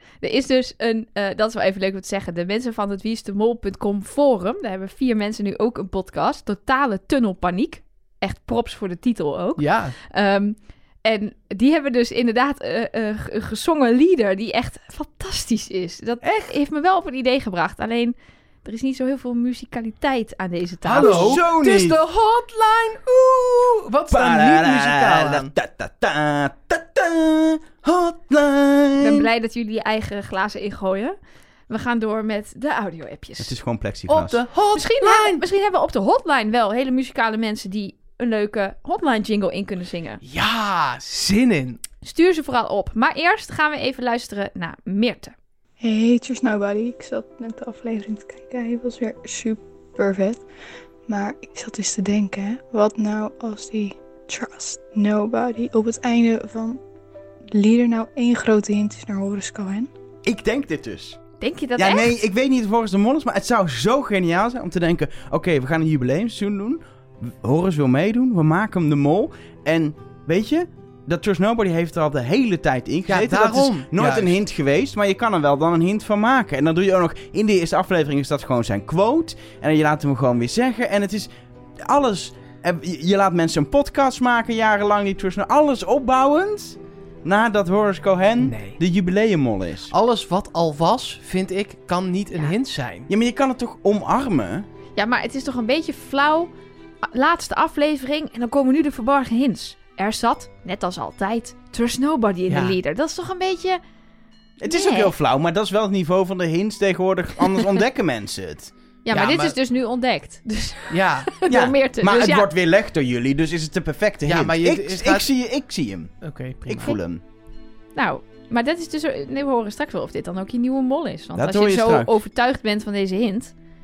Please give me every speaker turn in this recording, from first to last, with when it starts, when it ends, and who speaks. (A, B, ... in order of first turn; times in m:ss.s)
0:00.2-0:21.4 A
0:09.6-0:09.9 B
0:16.2-0:16.5 B
0:20.8-0:25.5 B
0:20.9-0:22.0 C
0:24.1-0:29.3 C
0:29.0-0:31.2 A
0:31.7-0:33.5 A
0:33.4-0:34.4 C
0:34.1-0:35.4 B
0:34.7-0:40.2 A
0:40.2-0:41.8 B
0:42.0-0:45.3 A
0:45.8-0:50.4 D
0:51.1-0:56.8 D
0:57.5-0:59.9 D
1:00.2-1:01.2 C
1:01.4-1:02.2 A
1:01.8-1:29.9 C
1:13.1-1:14.4 B
1:28.4-1:28.8 B
1:29.9-1:33.1 B
1:33.1-1:34.7 C
1:35.0-1:36.5 A
1:37.0-1:43.8 A
1:42.5-1:42.8 B
1:44.6-1:48.7 C
1:44.7-1:45.1 A
1:49.0-1:52.5 A
1:49.1-1:49.6 B
1:50.9-1:51.3 B
1:51.5-1:57.2 C
1:54.2-1:55.3 B
1:56.2-1:56.9 B
1:57.9-2:03.5 A
2:01.3-2:02.2 C